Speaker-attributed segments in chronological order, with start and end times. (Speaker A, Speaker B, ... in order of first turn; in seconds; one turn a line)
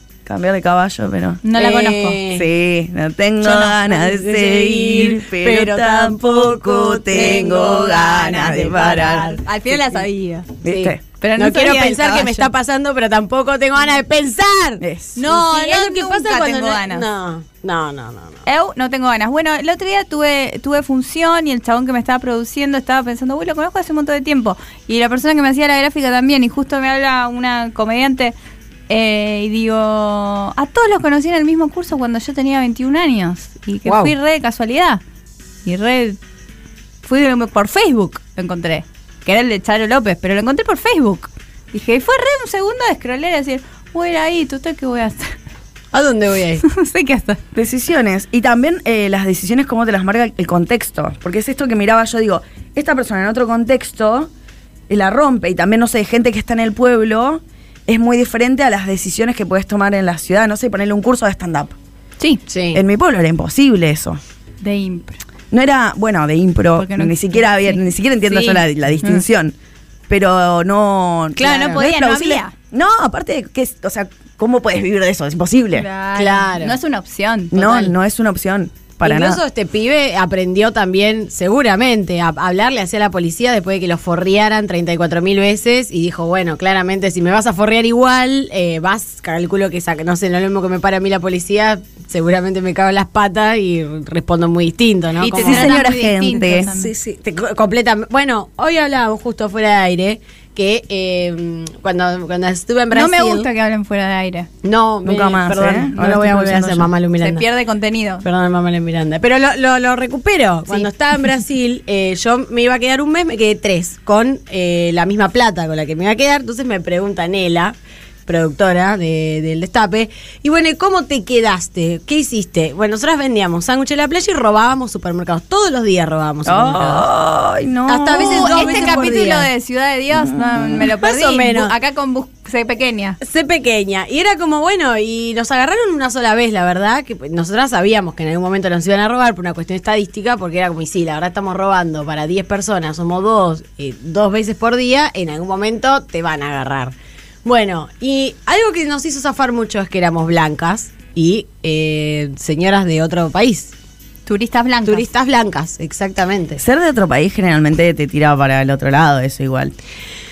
Speaker A: 0.2-1.4
Speaker B: 1.4-2.2
Speaker C: 1.6-2.5
Speaker A: 2.3-9.3
Speaker C: 3.5-10.0
Speaker B: 7.1-10.5
Speaker A: 10.6-11.0
Speaker C: 10.7-18.4
Speaker B: 11.2-12.5
Speaker A: 14.8-15.2
Speaker B: 15.2-17.1
Speaker B: 18.4-28.4
Speaker B: 28.9-35.0
Speaker C: 33.9-34.1
Speaker B: 35.6-36.2
Speaker B: 37.0-45.3
Speaker C: 45.9-46.6
Speaker B: 46.6-47.4
Speaker A: 47.5-54.3
Speaker A: 54.9-61.8
Speaker C: 62.5-62.8
Speaker A: 62.7-64.2
Speaker B: 64.6-65.2
Speaker A: 65.5-69.5
Speaker B: 66.8-69.2
Speaker A: 70.1-75.9
Speaker B: 71.4-72.5
Speaker B: 75.7-77.8
Speaker C: 76.2-76.8
Speaker A: 77.5-79.4
Speaker C: 77.6-77.9
Speaker C: 79.0-96.0
Speaker B: 95.2-96.9
Speaker A: 95.3-96.7
Speaker C: 96.7-103.5
Speaker B: 102.9-104.5
Speaker C: 104.6-107.5
Speaker A: 105.0-106.9
Speaker B: 107.2-108.2
Speaker C: 108.2-127.1
Speaker A: 126.5-129.3
Speaker C: 127.9-129.5
Speaker B: 128.1-133.2
Speaker A: 130.1-130.8
Speaker C: 130.8-131.7
Speaker C: 133.2-146.9
Speaker C: 147.4-153.7
Speaker B: 154.3-155.1
Speaker C: 154.8-156.6
Speaker A: 156.6-159.7